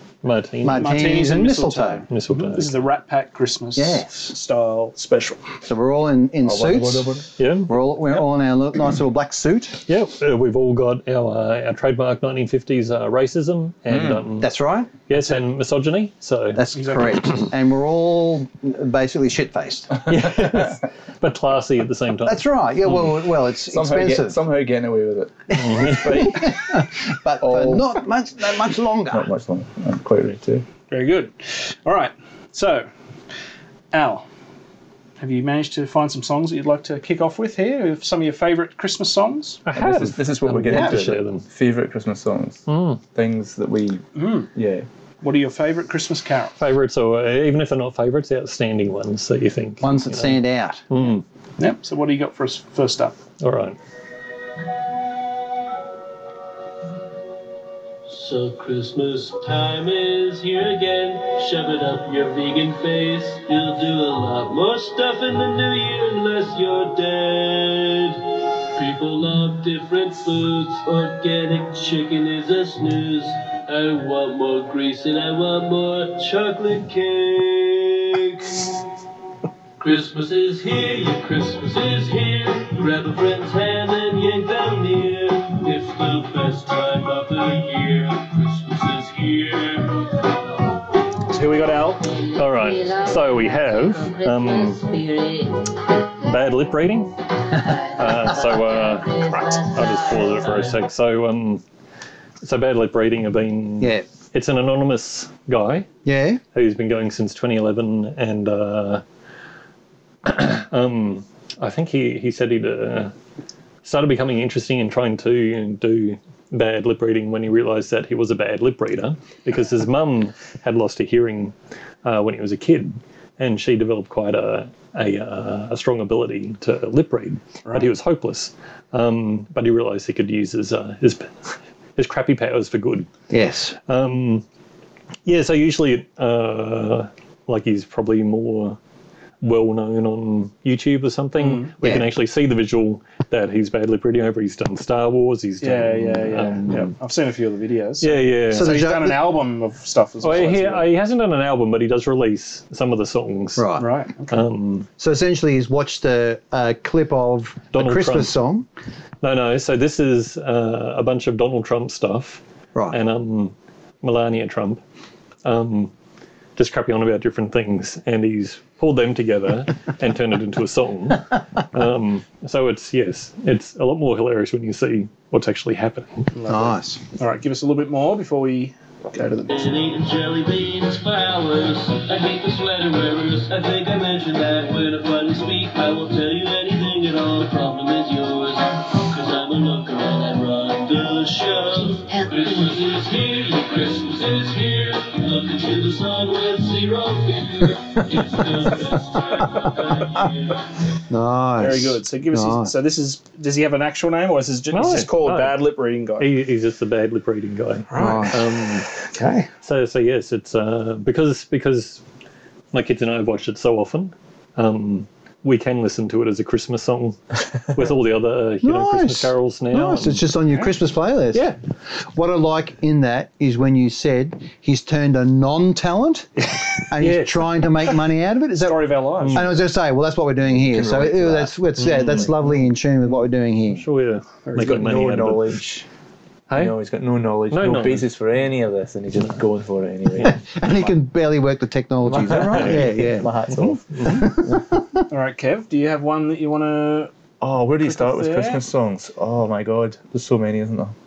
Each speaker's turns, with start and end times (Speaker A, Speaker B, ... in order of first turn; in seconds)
Speaker A: 0.2-1.0, 2.1-2.7, 7.4-7.8, 9.9-14.5, 15.1-16.6, 20.1-22.4, 25.5-26.2, 39.7-41.4, 42.7-43.0, 46.6-51.2, 53.4-53.8, 92.4-94.9, 96.2-97.1, 97.9-101.6, 102.4-105.9, 106.5-109.0, 110.2-113.1, 113.8-133.1, 133.9-134.4, 135.3-138.8, 139.4-146.9, 148.0-148.8, 150.2-153.7, 154.3-154.9, 157.7-158.3, 159.2-162.4, 162.9-164.8, 165.4-165.9, 166.6-176.2, 204.7-205.7, 206.2-208.9, 209.6-212.0, 212.7-220.3, 229.2-229.5, 231.8-232.3, 233.8-235.6, 236.5-236.8, 237.5-238.1, 242.5-244.4
Speaker B: 0.6-2.0, 3.8-4.3, 5.7-9.8, 14.4-14.9, 16.5-19.9, 22.2-24.4, 26.1-29.3, 40.7-41.0, 49.8-50.8, 106.0-106.4, 133.3-133.8, 141.8-142.1, 148.5-149.3, 153.6-153.9, 155.0-158.7, 176.5-177.0, 201.1-202.7, 207.9-208.4, 218.6-221.5, 222.2-233.8, 240.2-243.3, 244.0-245.0
Speaker C: 0.7-5.4, 15.1-15.4, 16.7-17.2, 30.9-32.9, 33.9-34.2, 35.2-39.6, 44.1-44.5, 45.2-46.5, 51.6-53.2, 91.3-92.0, 127.7-127.9, 141.4-141.7, 145.6-150.9, 153.8-154.4, 176.3-179.7, 201.6-206.3, 207.9-208.4, 208.9-209.5, 227.0-227.9, 228.6-229.5, 234.5-234.8, 245.1-247.1, 247.8-248.6
Speaker D: 6.4-7.3, 13.9-14.2, 20.0-20.8, 22.9-26.8, 27.4-28.0, 29.1-30.6, 39.7-44.9, 230.5-231.5, 234.6-235.8, 236.5-240.9, 242.0-244.3, 247.4-250.9
Speaker E: 58.1-68.2, 68.8-78.7, 79.8-90.3, 179.5-200.6